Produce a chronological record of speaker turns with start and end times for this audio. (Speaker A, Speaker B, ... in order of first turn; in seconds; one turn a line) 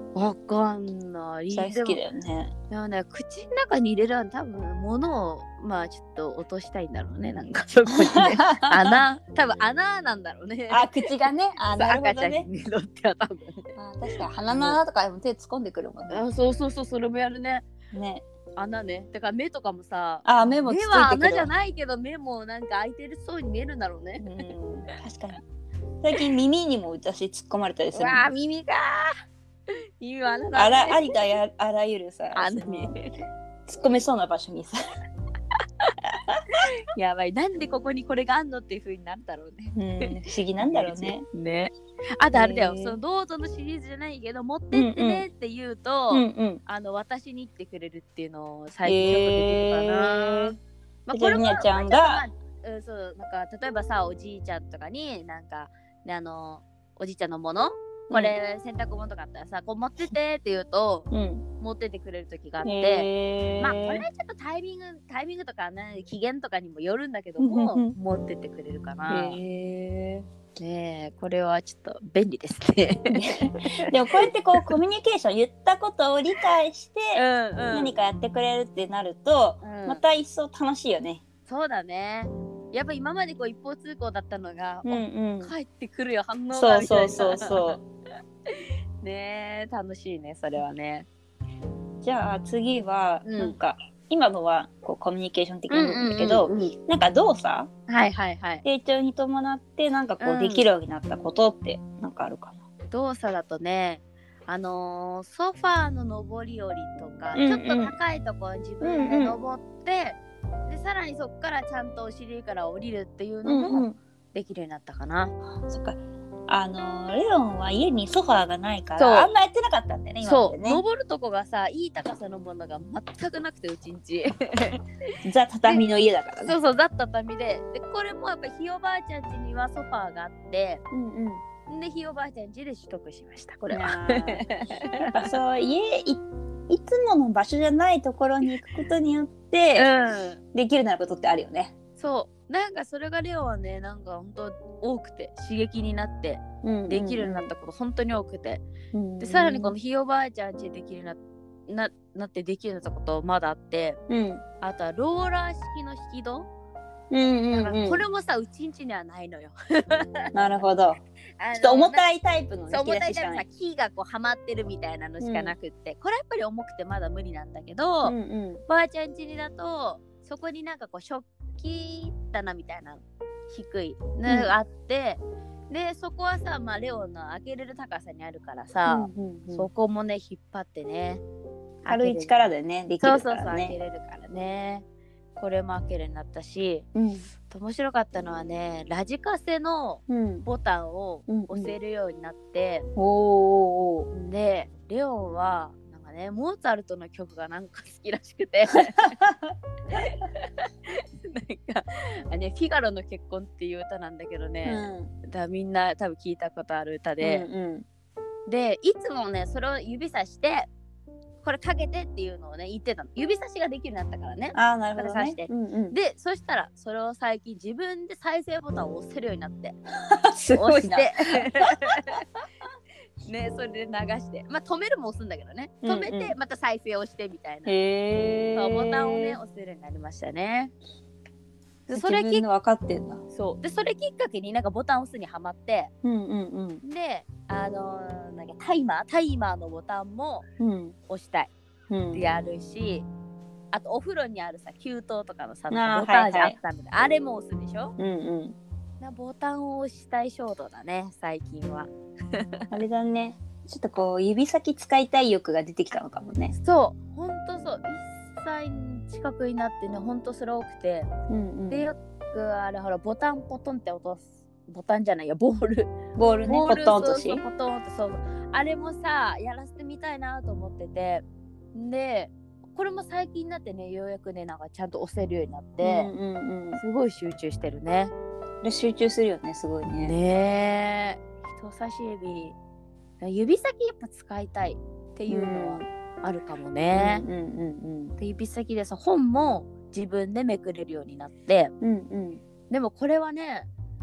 Speaker A: 0.1-2.0
Speaker B: 1.5-2.5
Speaker A: 2.7-11.0
Speaker B: 8.0-9.0
Speaker B: 10.7-12.5
Speaker A: 11.6-13.7
Speaker B: 13.8-16.2
Speaker A: 14.5-14.8
Speaker A: 16.1-17.7
Speaker B: 17.9-18.2
Speaker A: 18.6-24.3
Speaker B: 20.2-21.5
Speaker B: 24.2-25.4
Speaker B: 26.0-28.3
Speaker A: 27.9-29.1
Speaker A: 30.0-31.2
Speaker B: 30.6-33.0
Speaker A: 32.3-33.1
Speaker B: 33.7-34.8
Speaker A: 36.6-40.0
Speaker B: 39.8-41.3
Speaker A: 40.6-50.6
Speaker B: 42.3-43.0
Speaker B: 44.7-45.2
Speaker B: 46.1-46.6
Speaker B: 48.9-50.6
Speaker A: 51.1-61.1
Speaker B: 51.1-52.2
Speaker B: 58.1-58.4
Speaker B: 61.1-61.5
Speaker A: 61.6-63.1
Speaker B: 62.6-64.0
Speaker A: 63.6-69.4
Speaker B: 67.4-68.0
Speaker B: 69.1-70.3
Speaker A: 70.6-74.3
Speaker B: 73.1-81.2
Speaker A: 77.2-77.9
Speaker A: 79.6-80.0
Speaker A: 81.5-87.8
Speaker B: 84.8-85.5
Speaker B: 86.5-87.8
Speaker A: 88.5-91.1
Speaker B: 92.0-97.7
Speaker A: 93.2-93.6
Speaker A: 95.7-96.7
Speaker A: 97.9-98.6
Speaker B: 98.6-102.6
Speaker A: 100.2-100.7
Speaker A: 102.9-115.3
Speaker B: 107.3-107.9
Speaker B: 108.8-109.4
Speaker B: 113.5-114.0
Speaker B: 115.7-120.8
Speaker A: 119.0-119.3
Speaker A: 120.2-124.8
Speaker B: 125.2-126.6
Speaker A: 126.5-130.8
Speaker B: 130.9-131.4
Speaker A: 131.7-135.3
Speaker B: 133.7-134.5
Speaker B: 135.0-139.9
Speaker A: 139.8-140.4
Speaker B: 140.5-141.7
Speaker A: 142.0-148.6
Speaker B: 146.6-147.5
Speaker B: 148.9-149.8
Speaker A: 149.2-154.0
Speaker B: 154.1-154.4
Speaker A: 154.6-156.5
Speaker B: 157.1-158.0
Speaker A: 157.5-160.2
Speaker B: 160.3-161.0
Speaker A: 161.4-162.1
Speaker B: 161.6-163.4
Speaker A: 162.7-168.1
Speaker B: 165.2-165.6
Speaker B: 168.0-168.6
Speaker A: 168.7-181.2
Speaker B: 174.3-174.5
Speaker B: 178.9-179.7
Speaker A: 181.8-182.5
Speaker B: 181.9-183.8
Speaker A: 183.0-184.8
Speaker A: 185.4-186.9
Speaker B: 186.9-187.3
Speaker A: 187.5-192.9
Speaker B: 190.1-190.5
Speaker B: 191.3-191.7
Speaker B: 193.0-194.1
Speaker A: 194.1-199.2
Speaker B: 199.0-199.5
Speaker A: 199.9-207.5
Speaker B: 204.6-205.1
Speaker B: 207.2-207.8
Speaker A: 208.5-210.7
Speaker A: 211.4-219.8
Speaker B: 214.5-216.0
Speaker B: 220.1-222.0
Speaker A: 220.5-222.2
Speaker A: 223.2-227.7
Speaker B: 225.8-226.3
Speaker B: 227.7-229.4
Speaker A: 228.6-230.7
Speaker A: 231.9-232.4
Speaker B: 231.9-233.2
Speaker A: 233.3-235.9
Speaker B: 236.0-236.8
Speaker A: 236.8-240.5
Speaker B: 240.6-241.0
Speaker A: 241.1-241.5
Speaker B: 241.9-242.2
Speaker A: 242.1-243.1
Speaker A: 243.7-247.9
Speaker B: 245.7-246.6
Speaker B: 248.0-248.6
Speaker A: 249.0-252.7
Speaker B: 252.7-256.6
Speaker A: 256.6-261.1
Speaker B: 261.3-261.9
Speaker A: 261.7-265.9
Speaker B: 266.2-267.4
Speaker A: 266.5-276.1
Speaker B: 275.8-276.8
Speaker A: 276.8-278.1
Speaker B: 278.6-280.1
Speaker A: 280.0-282.6
Speaker A: 283.2-287.2
Speaker B: 285.3-285.8
Speaker B: 286.9-288.1
Speaker A: 288.2-291.7
Speaker B: 291.8-292.4
Speaker A: 292.7-293.7